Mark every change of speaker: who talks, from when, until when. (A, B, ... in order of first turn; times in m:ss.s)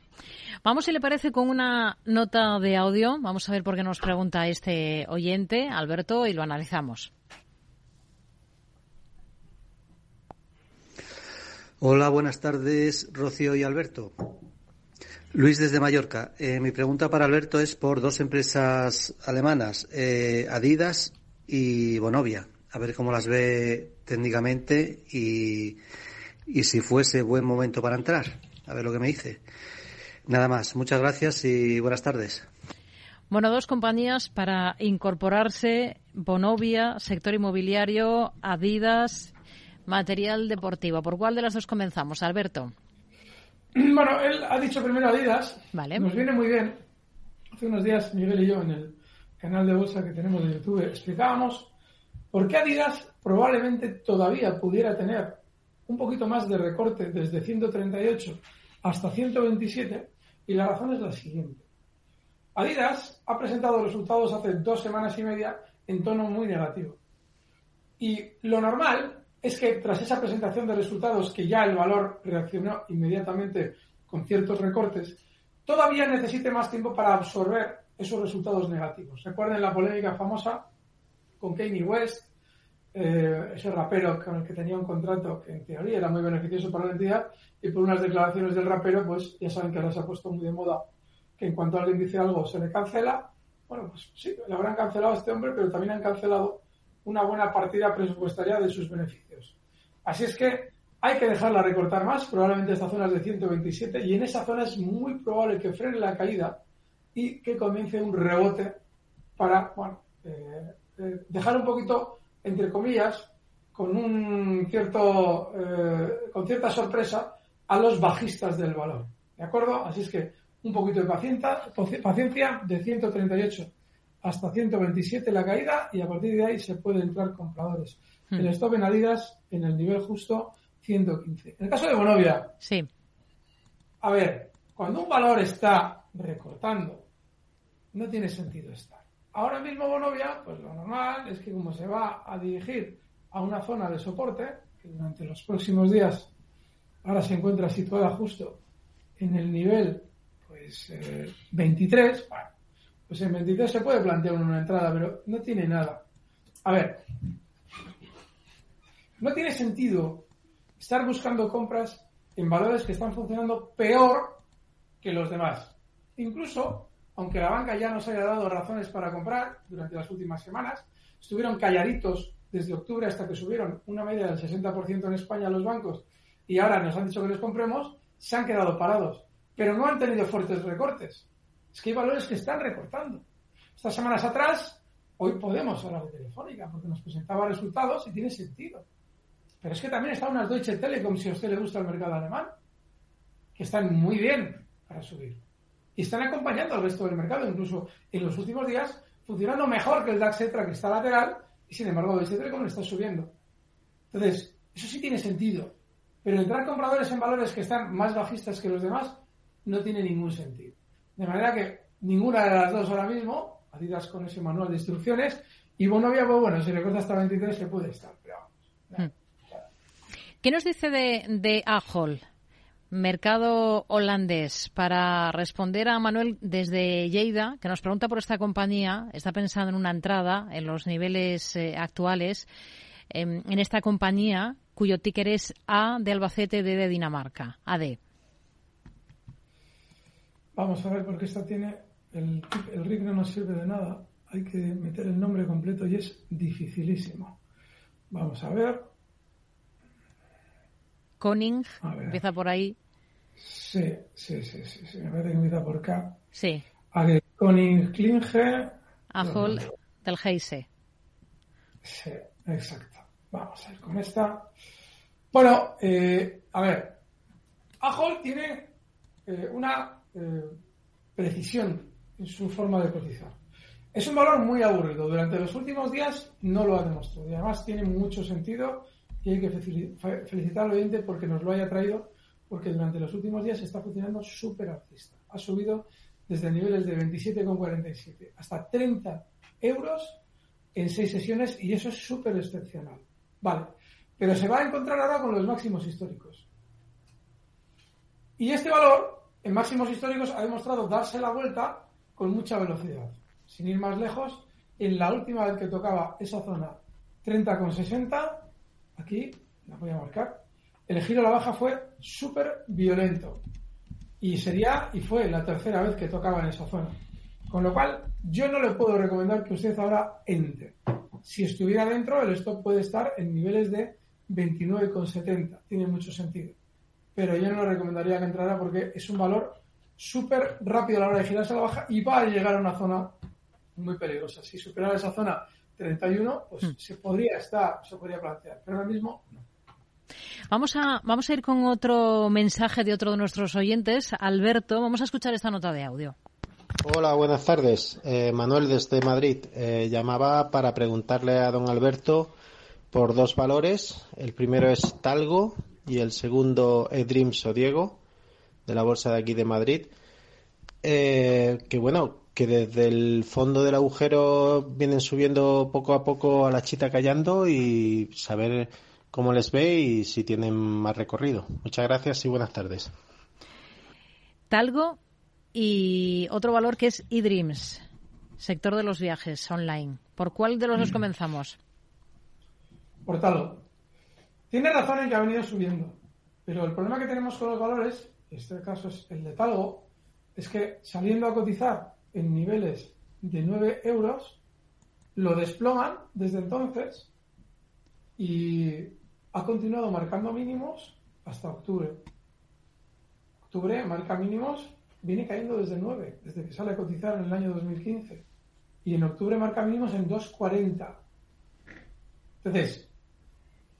0:00.6-0:07.1 A
0:11.8-0:14.4 B
0:15.3-0:25.8 B
0:26.5-0:29.4 B
0:30.2-0:32.5 B
0:33.3-0:39.3 A
0:39.9-0:42.7 A
0:43.7-0:46.8 C
0:45.7-0:46.1 A
0:47.5-0:51.7 C
0:52.3-1:01.6 C
1:02.6-1:07.0 C
1:08.0-1:20.7 C
1:21.4-1:22.3 C
1:22.9-1:30.9 C
1:31.4-1:46.6 C
1:47.1-1:48.8 C
1:49.4-2:03.7 C
2:04.2-2:12.5 C
2:12.6-2:12.9 A
2:14.0-2:17.0 C
2:17.9-2:26.3 C
2:27.0-2:28.6 C
2:29.2-2:32.5 C
2:33.1-2:36.0 C
2:36.6-2:37.0 C
2:39.2-2:40.3 C
2:40.8-2:44.4 C
2:45.0-3:03.2 C
3:03.8-3:08.8 C
3:09.6-3:12.5 C
3:13.5-3:15.4 C
3:16.0-3:23.3 C
3:24.1-3:39.6 C
3:40.4-3:42.2 A
3:42.9-3:52.5 A
3:53.1-3:58.0 A
4:00.5-4:07.4 C
4:08.1-4:08.9 C
4:11.2-4:12.8 A
4:11.8-4:12.2 C
4:13.4-4:16.2 C
4:16.3-4:16.6 A
4:16.9-4:19.7 C
4:19.1-4:20.6 A
4:21.8-4:24.5 C
4:25.3-4:27.0 C
4:27.8-4:28.7 C
4:29.2-4:30.6 C
4:31.1-4:33.4 C
4:33.9-4:50.2 C
4:50.7-4:56.5 C
4:58.4-5:13.4 C
5:14.2-5:17.0 C
5:17.5-5:26.6 C
5:27.1-5:33.1 C
5:33.8-5:39.4 C
5:40.5-5:46.1 A
5:46.8-5:52.4 D
5:52.9-5:58.0 D
5:58.6-5:59.9 D
6:00.8-6:12.9 D
6:14.5-6:15.0 A
6:15.5-6:17.8 A
6:18.4-6:21.6 A
6:23.0-6:23.6 C
6:24.5-6:34.4 C
6:35.1-6:37.1 C
6:38.2-6:42.0 C
6:43.5-6:48.2 C
6:48.8-6:51.0 C
6:52.4-6:52.9 C